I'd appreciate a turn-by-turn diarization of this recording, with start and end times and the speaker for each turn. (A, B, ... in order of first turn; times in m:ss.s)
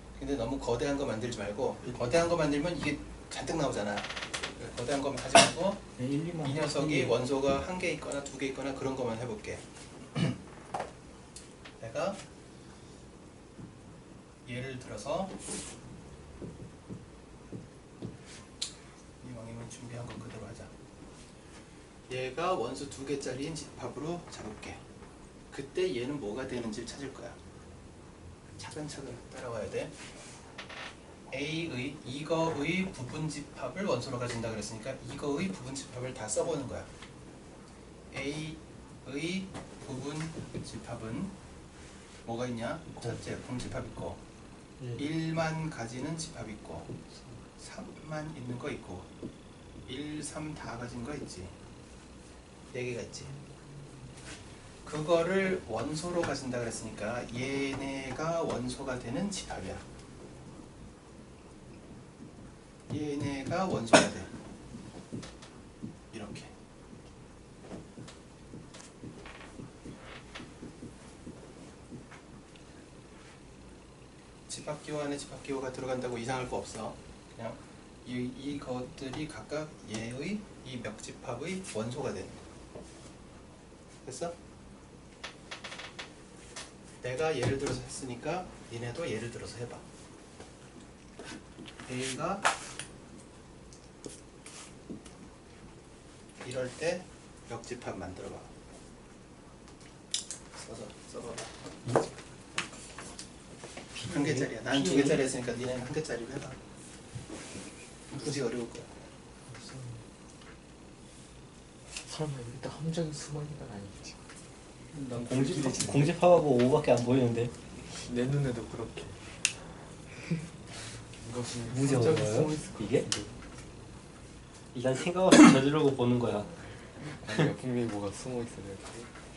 0:00.2-0:05.9 A
0:06.0-0:07.2 B
0:06.4-0:10.4 A
0:11.8-0:12.2 A
0:14.4-0:15.3 A
0:19.2-0:20.7 A
0:22.1-0:24.8 A
0:25.5-0:27.4 A
0:28.6-0:29.9 A
0:31.3-0:36.9 A
0:38.1-0:41.3 A
0:42.2-0:44.2 A
0:44.9-0:46.9 A
0:47.6-0:49.1 A
0:49.8-0:51.5 A
0:52.7-0:53.3 A
0:54.8-0:59.8 A
1:02.9-1:04.3 A
1:06.1-1:06.5 A
1:14.5-1:22.4 A
1:24.0-1:24.3 A
1:27.0-1:29.8 A
1:31.8-1:32.4 A
1:36.4-1:38.5 A
1:40.5-1:41.5 A
1:43.9-1:45.2 B
1:44.1-1:46.6 A
1:48.1-1:48.9 A
1:49.5-1:50.0 C
1:52.0-1:54.2 C
1:54.9-1:57.5 B
1:55.1-1:56.1 C
1:57.9-1:59.2 C
2:01.0-2:03.3 C
2:01.7-2:03.1 B
2:04.7-2:06.5 B
2:07.1-2:09.1 C